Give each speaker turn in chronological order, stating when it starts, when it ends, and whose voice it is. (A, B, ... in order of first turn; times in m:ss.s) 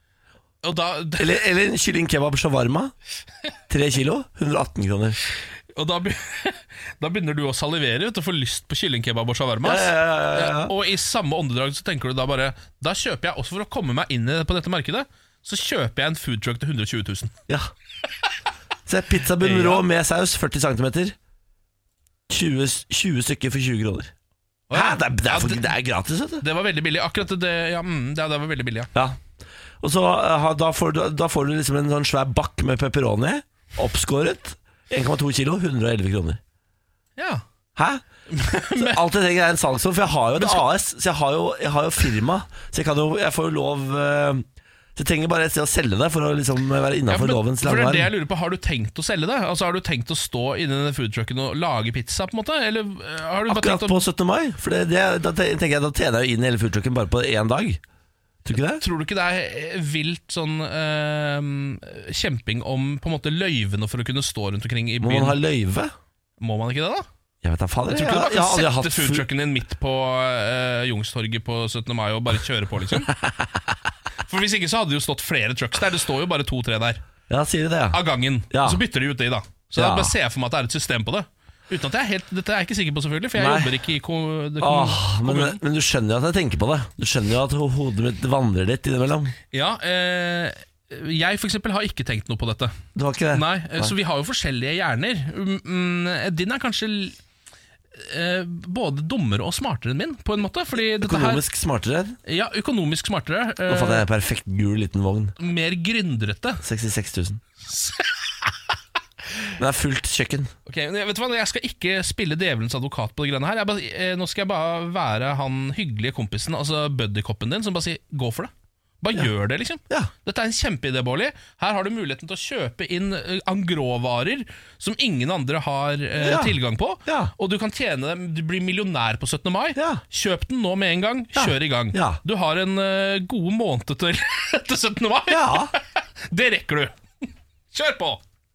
0:00.6-0:01.4 A
0:01.2-0:02.9 B
0:03.7-0:05.2 B
0:05.7-0:17.3 A
0:09.6-0:10.7 B
0:18.8-0:21.2 B
0:19.4-0:19.8 A
0:22.3-0:24.1 B
0:24.7-0:25.7 A
0:24.7-0:26.4 B
0:26.4-0:28.9 A
0:28.9-0:29.2 B
0:29.8-0:36.4 B
0:37.2-0:37.4 A
0:37.8-0:38.0 B
0:38.3-0:39.0 A
0:38.7-0:44.4 B
0:40.4-0:40.6 A
0:45.0-0:48.1 B
0:47.1-0:54.0 A
0:53.5-0:57.8 B
0:58.4-0:58.8 B
0:58.8-1:05.4 A
1:05.0-1:05.9 B
1:06.4-1:07.0 A
1:07.4-1:09.2 B
1:07.9-1:13.1 A
1:14.3-1:17.0 A
1:17.3-1:18.0 B
1:17.9-1:25.6 A
1:18.5-1:18.8 B
1:19.8-1:20.1 B
1:23.4-1:23.7 B
1:24.6-1:29.3 B
1:29.5-1:32.7 A
1:32.9-1:33.9 B
1:33.3-1:37.2 A
1:38.0-1:41.4 A
1:41.0-1:42.2 B
1:42.2-1:44.0 A
1:43.7-1:45.3 B
1:45.4-1:46.6 A
1:46.6-1:47.4 B
1:47.7-1:48.1 A
1:49.6-1:50.5 B
1:50.6-2:16.9 A
2:06.2-2:06.5 B
2:07.0-2:07.3 B
2:09.8-2:10.0 B
2:11.3-2:12.2 B
2:15.3-2:15.7 B
2:17.7-2:18.2 A